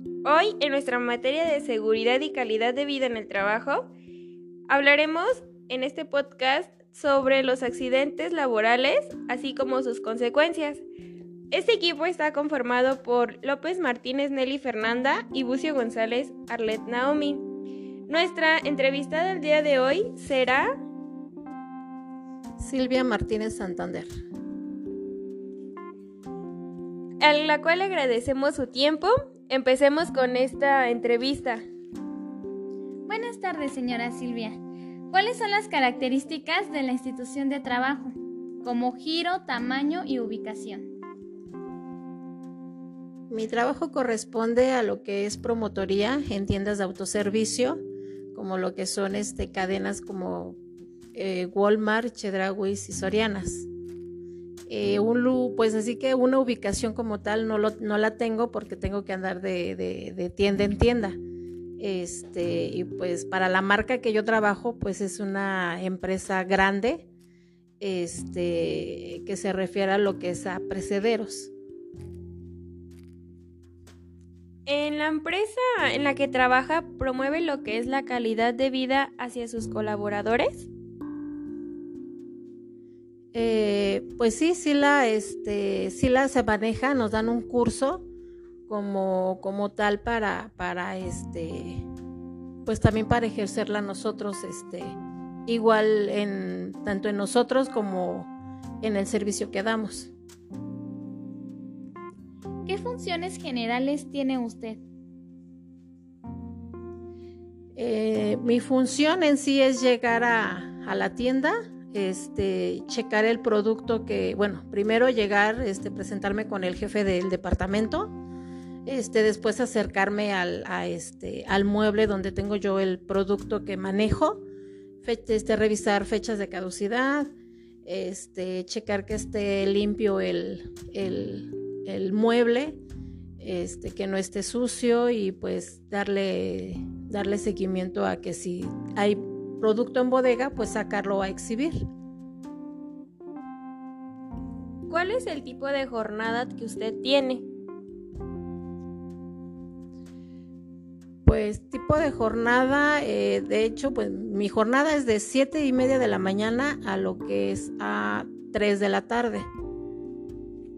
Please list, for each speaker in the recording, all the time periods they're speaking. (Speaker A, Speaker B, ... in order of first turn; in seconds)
Speaker A: 0.2-3.9, 4.7-10.8, 11.5-17.5, 18.1-20.8, 27.2-31.6, 74.7-80.7, 144.9-147.5
Speaker B: 22.6-24.1, 43.3-47.8, 48.3-50.6, 51.1-53.7, 54.7-61.2, 61.8-67.1, 67.8-71.5, 83.3-88.1, 88.7-91.9, 92.7-98.3, 98.8-100.1, 107.8-118.2, 118.8-124.5, 125.0-127.3, 127.8-132.8, 133.4-141.9, 151.2-159.5
Speaker C: 33.1-40.9, 102.7-104.8